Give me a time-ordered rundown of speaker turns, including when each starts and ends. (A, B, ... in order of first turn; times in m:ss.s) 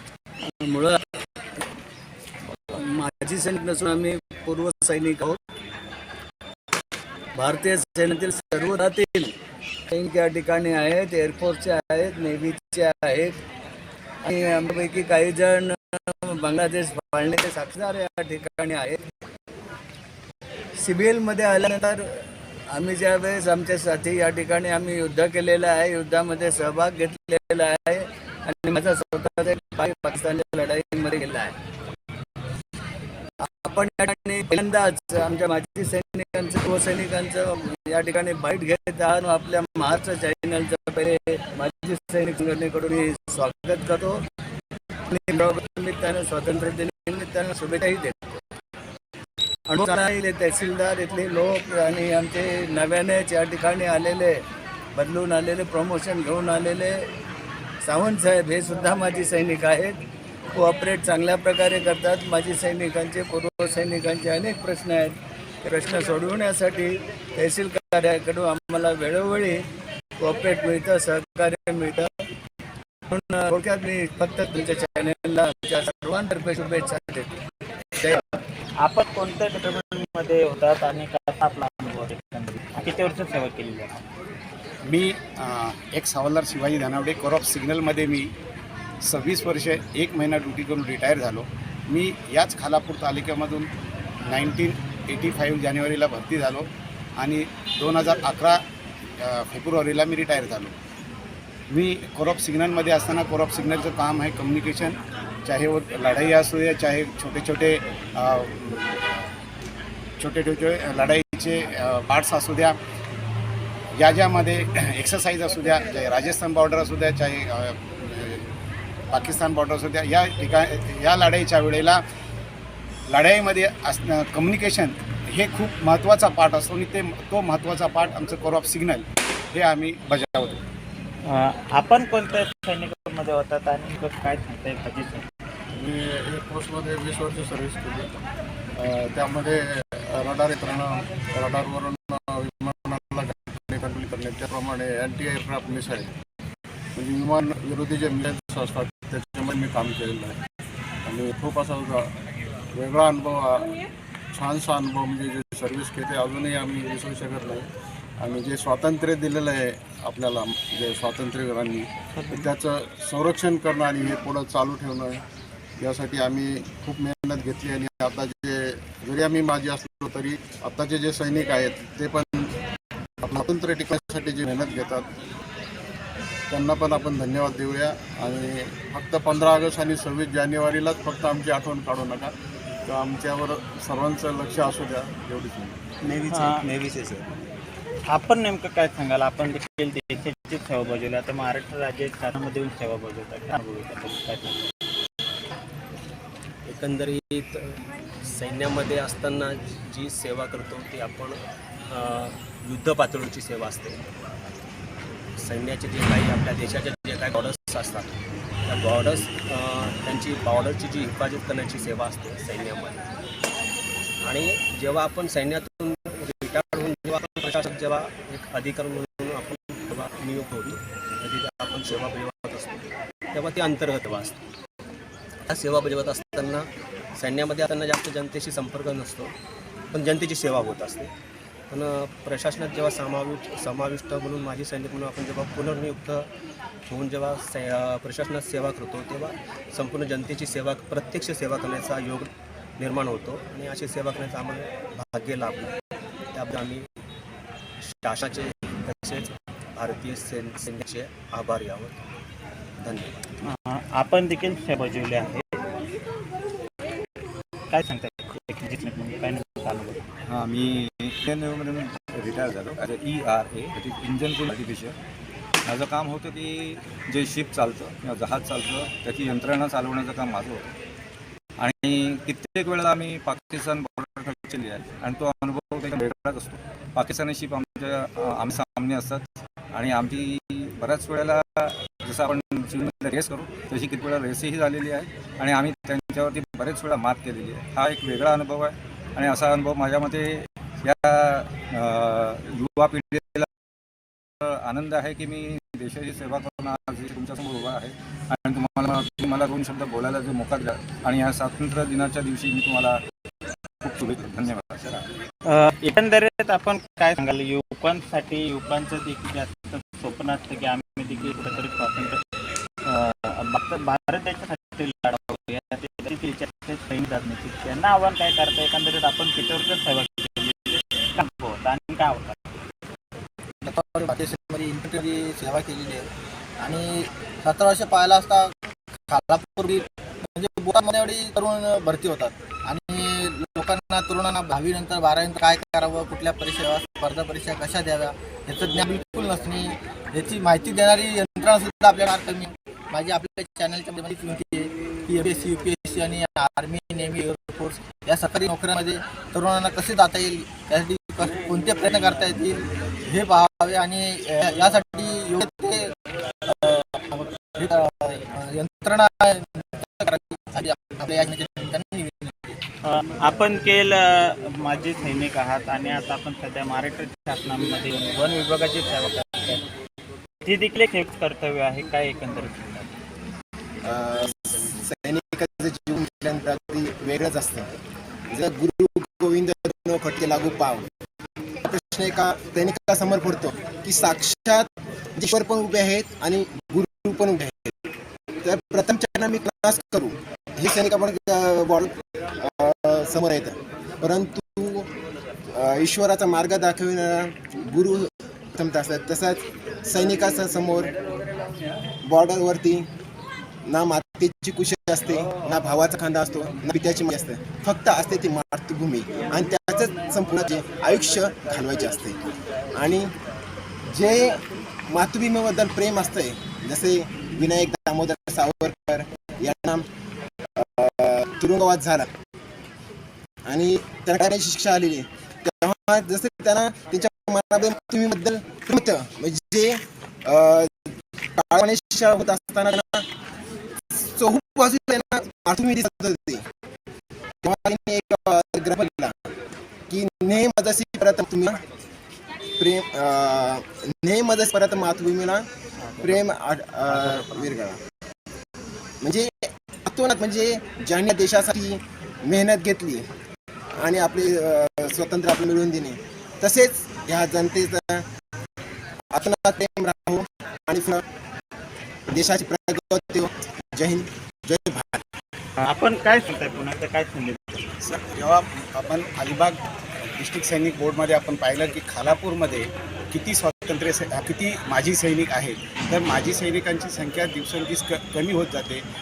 0:00.6-0:01.0 A
0:02.5-0:05.4 A
0:07.4-0:09.3 A
0:09.9-0:13.4 A
0:14.2-0:19.0 A
0:20.8-0:22.2 A
0:22.7-0:31.5 A
0:33.4-0:44.2 A
0:45.1-0:48.2 A
0:49.7-0:54.4 A
0:55.0-0:57.0 A
0:57.8-1:00.0 A
1:00.5-1:09.6 A
1:10.2-1:12.1 A
1:13.1-1:17.3 A
1:18.0-1:18.4 A
1:18.8-1:24.0 B
1:24.8-1:28.3 C
1:29.0-1:33.7 C
1:34.3-1:38.6 C
1:39.2-1:40.7 C
1:41.7-1:49.2 C
1:50.2-1:52.8 C
1:54.0-1:58.5 C
1:59.1-2:02.0 C
2:03.1-2:10.6 C
2:11.2-2:15.2 B
2:15.8-2:18.1 D
2:18.8-2:26.1 D
2:26.9-2:30.4 D
2:31.0-2:32.1 D
2:32.7-2:33.8 D
2:34.3-2:37.7 D
2:38.2-2:45.2 D
2:42.2-2:42.4 B
2:45.8-2:52.5 D
2:53.2-2:55.1 D
2:56.5-3:02.3 D
3:02.9-3:05.8 D
3:06.1-3:07.1 E
3:06.3-3:06.7 B
3:08.1-3:14.6 B
3:16.6-3:24.0 E
3:25.4-3:28.1 E
3:28.6-3:33.0 E
3:34.2-3:44.4 E
3:45.4-3:49.3 E
3:49.9-3:51.1 E
3:51.7-3:56.2 E
3:56.9-4:05.7 E
4:06.3-4:06.9 E
4:07.8-4:12.0 E
4:12.8-4:13.2 E
4:13.4-4:15.8 B
4:17.7-4:20.0 B
4:20.3-4:25.0 F
4:25.6-4:30.6 F
4:31.6-4:53.5 F
4:54.4-5:03.0 F
5:03.8-5:05.1 F
5:05.4-5:12.2 B
5:12.8-5:22.6 B
5:23.6-5:26.1 G
5:26.6-5:28.5 G
5:29.1-5:55.9 G
5:56.5-6:02.3 G
6:02.8-6:09.6 B
6:10.4-6:12.9 B
6:13.8-6:17.7 H
6:18.3-6:20.8 H
6:21.6-6:27.7 H
6:28.4-6:34.9 H
6:35.5-6:41.0 H
6:42.0-6:42.9 H
6:43.6-6:53.1 H
6:53.9-6:59.8 H
7:00.6-7:02.1 H
7:03.4-7:13.1 H
7:13.9-7:16.4 H
7:17.4-7:19.3 H
7:19.9-7:21.6 H
7:22.6-7:25.5 H
7:25.8-7:26.2 B
7:26.0-7:27.8 H
7:29.0-7:33.1 H
7:33.8-7:38.1 H
7:39.1-7:41.0 H
7:42.1-7:45.0 H
7:45.6-7:47.7 B
7:47.8-7:49.6 C
7:50.2-7:58.8 C